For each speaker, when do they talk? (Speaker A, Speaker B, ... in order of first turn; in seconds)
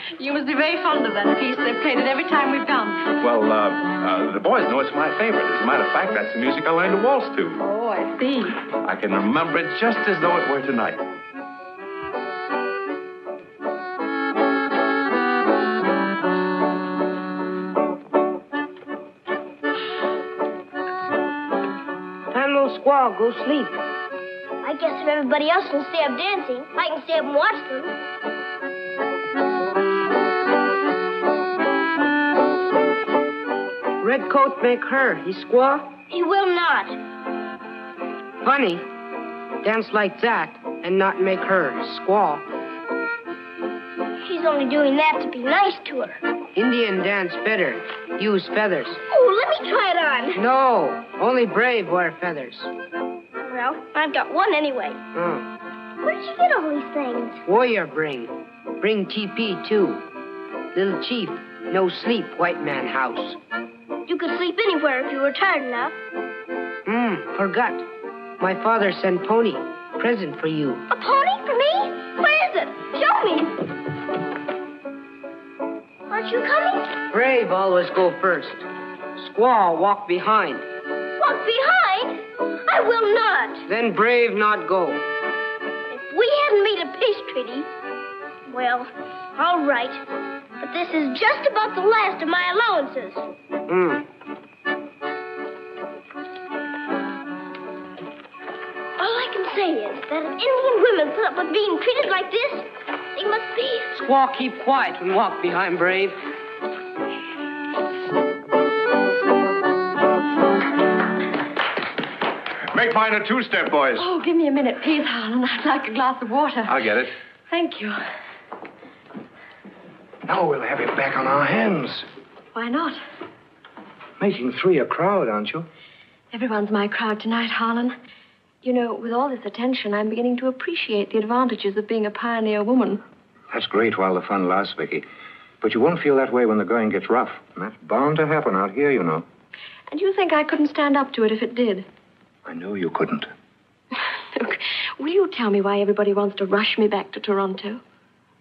Speaker A: 0.2-3.1, 7.6-8.6, 114.0-116.8, 117.5-118.0, 122.5-123.0, 126.3-128.0, 128.6-133.0, 139.9-141.9, 144.3-147.8
Speaker B: 3.2-7.7, 8.7-11.0, 116.7-117.1
Speaker C: 22.3-23.8, 34.0-35.9, 38.4-38.9, 39.6-42.5, 46.6-49.0, 50.4-52.7, 55.1-55.5, 57.5-60.0, 60.7-63.4, 66.9-67.9, 68.4-70.8, 77.1-80.7, 83.7-85.0, 93.7-94.0, 103.9-106.2
Speaker D: 24.6-27.9, 36.1-37.0, 44.2-46.2, 49.1-50.4, 53.5-55.0, 56.0-57.4, 64.1-66.0, 70.9-73.7, 76.1-77.0, 81.2-83.7, 85.9-87.7, 88.5-90.0, 90.6-93.2, 99.0-103.9
Speaker E: 112.7-114.1, 120.3-122.1, 124.2-125.7, 133.5-135.1, 135.6-139.2, 142.4-143.3